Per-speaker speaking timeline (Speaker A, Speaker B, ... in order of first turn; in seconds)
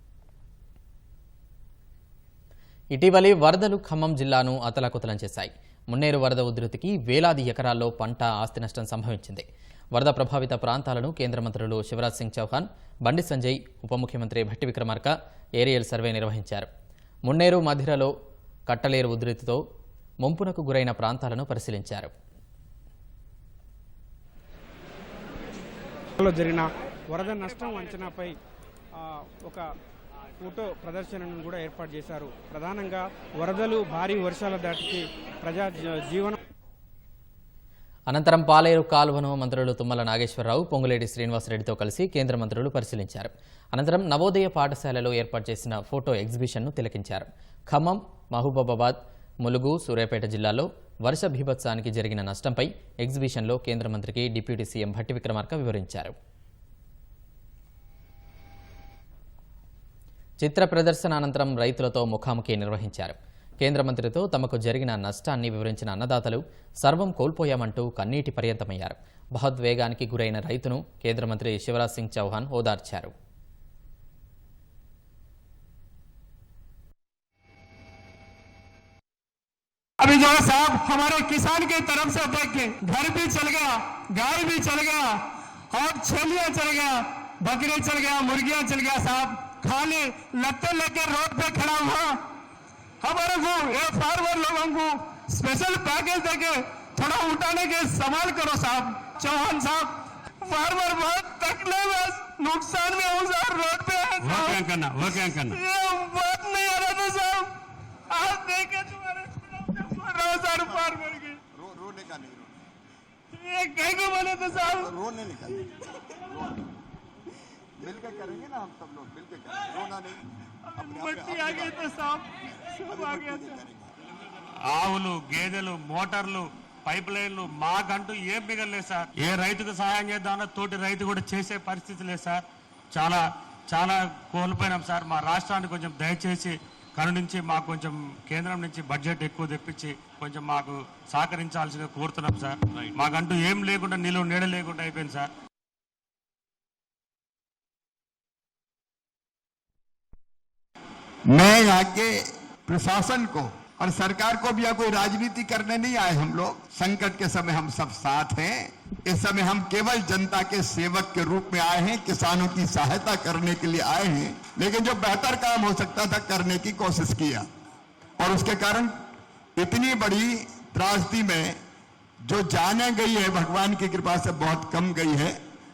Speaker A: 3.0-16.7, 17.3-18.1, 18.7-19.6, 20.2-22.1, 38.1-56.1, 60.4-73.1
Speaker B: 26.2-28.4, 29.0-29.6, 30.4-36.4
Speaker C: 80.0-92.2, 93.0-104.6, 105.5-107.5, 108.1-111.4, 113.3-114.9, 120.7-123.6
Speaker D: 104.2-105.6, 124.7-132.4, 132.9-145.3
Speaker E: 111.5-112.6, 114.8-116.7, 117.8-121.9, 122.8-123.9, 151.3-167.5, 168.2-168.9, 169.6-171.6, 172.2-175.4